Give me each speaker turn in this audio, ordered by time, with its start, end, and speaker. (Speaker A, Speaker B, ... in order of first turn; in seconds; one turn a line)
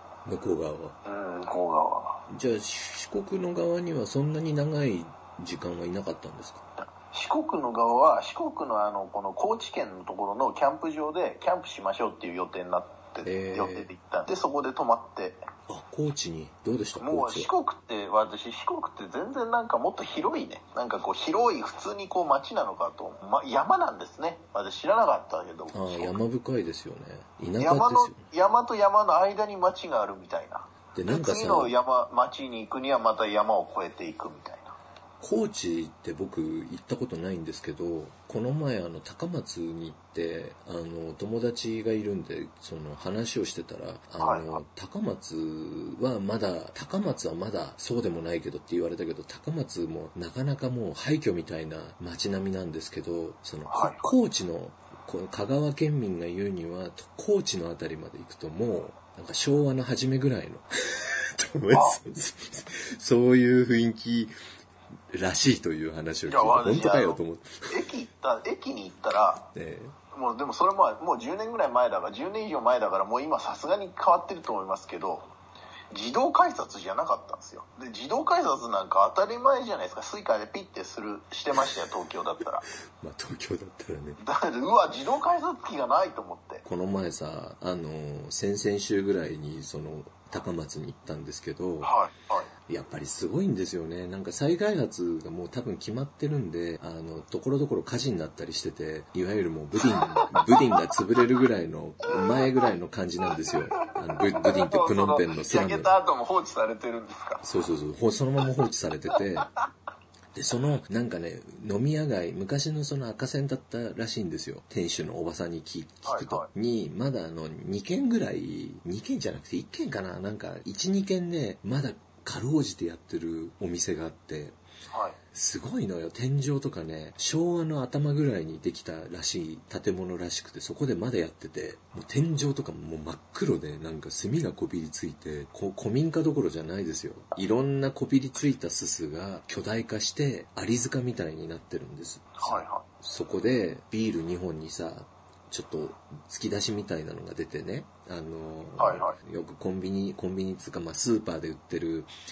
Speaker A: 0.2-1.0
Speaker B: 1.0-2.2
Speaker A: 2.3-6.6
Speaker B: 7.0-15.4
Speaker A: 13.2-13.9
Speaker A: 15.7-17.5
Speaker B: 17.0-26.1
Speaker A: 25.7-28.2
Speaker B: 27.6-34.7
Speaker A: 30.9-31.7
Speaker A: 35.2-64.3
Speaker B: 44.2-44.6
Speaker B: 53.7-54.1
Speaker B: 61.7-62.0
Speaker A: 65.1-67.8
Speaker B: 66.3-69.5
Speaker A: 69.5-70.0
Speaker B: 70.1-75.3
Speaker B: 75.9-82.6
Speaker A: 83.0-84.2
Speaker B: 84.2-86.6
Speaker A: 86.6-91.9
Speaker B: 91.8-92.5
Speaker A: 92.7-105.9
Speaker B: 99.8-100.9
Speaker B: 102.2-102.4
Speaker B: 104.1-107.4
Speaker A: 107.4-109.5
Speaker A: 110.3-124.6
Speaker B: 116.0-116.5
Speaker B: 124.9-125.2
Speaker A: 125.3-152.1
Speaker B: 142.4-142.8
Speaker B: 148.8-149.2